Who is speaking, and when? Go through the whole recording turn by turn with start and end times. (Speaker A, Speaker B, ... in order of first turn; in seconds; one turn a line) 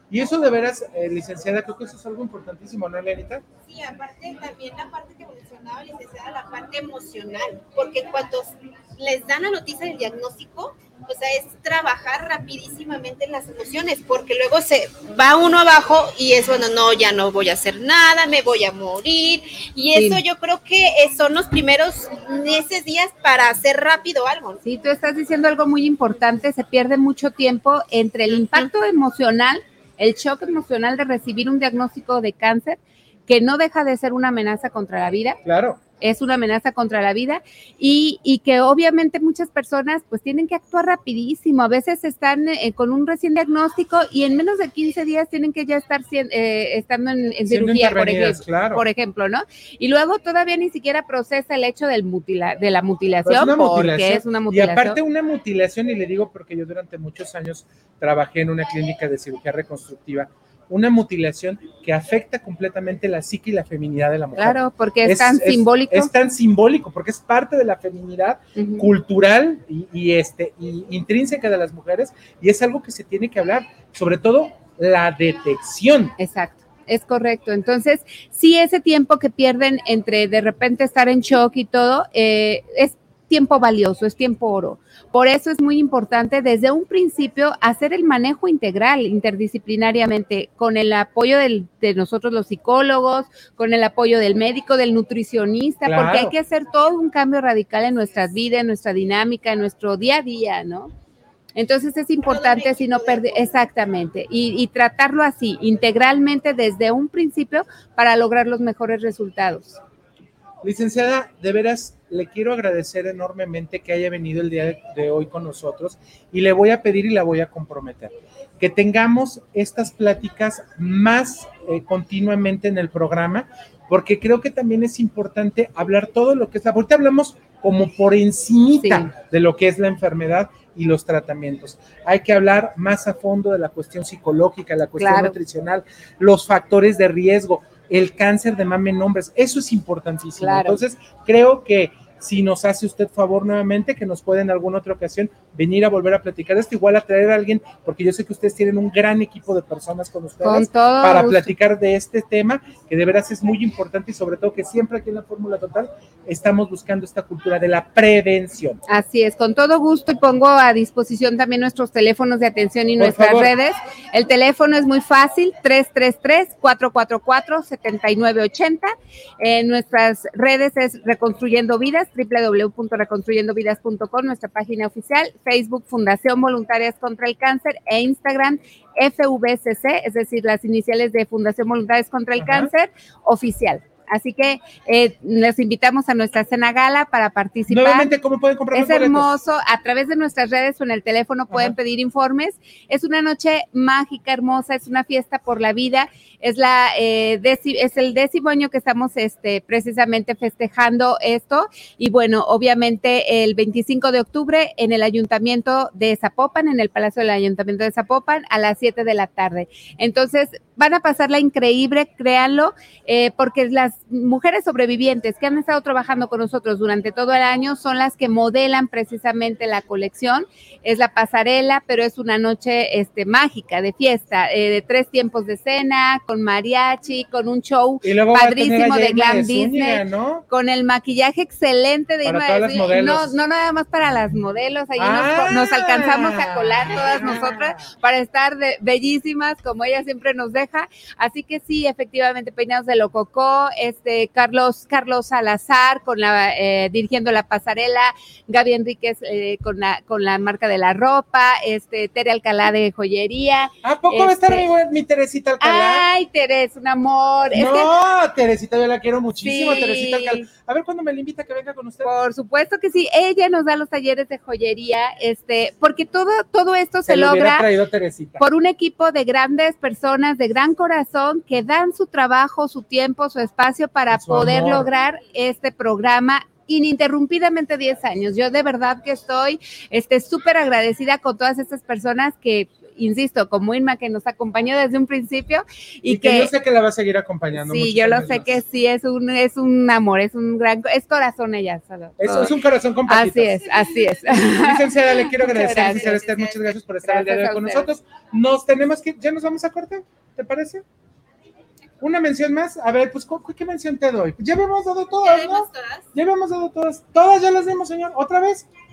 Speaker A: 0.1-3.4
Speaker B: 3.6-24.6
Speaker C: 19.9-20.2
Speaker C: 24.6-35.4
Speaker B: 28.3-28.7
Speaker A: 35.4-35.8
Speaker C: 36.0-55.0
Speaker A: 47.5-48.8
Speaker A: 53.2-76.1
Speaker C: 64.4-66.1
Speaker C: 68.6-68.9
Speaker C: 76.2-100.9
Speaker A: 95.8-96.3
Speaker C: 101.5-109.8
Speaker B: 102.2-103.5
Speaker A: 110.6-158.8
Speaker C: 128.8-129.1
Speaker C: 135.0-135.4
Speaker C: 140.4-140.8
Speaker C: 150.4-151.5
Speaker C: 158.9-188.1
Speaker A: 163.0-163.5
Speaker A: 182.4-182.7
Speaker A: 187.7-189.3
Speaker C: 188.7-254.7
Speaker A: 228.0-230.4
Speaker A: 232.2-233.3
Speaker A: 235.0-237.9
Speaker A: 253.8-256.1
Speaker C: 255.6-257.9
Speaker A: 257.5-262.1
Speaker C: 259.4-260.4
Speaker C: 262.1-267.6
Speaker A: 267.1-268.4
Speaker C: 268.4-286.5
Speaker A: 274.1-274.9
Speaker A: 286.1-288.6
Speaker C: 287.7-292.5
Speaker A: 292.2-293.7
Speaker C: 293.1-297.9
Speaker A: 294.3-300.8
Speaker B: 296.0-296.5
Speaker A: 302.0-308.7
Speaker B: 305.2-306.1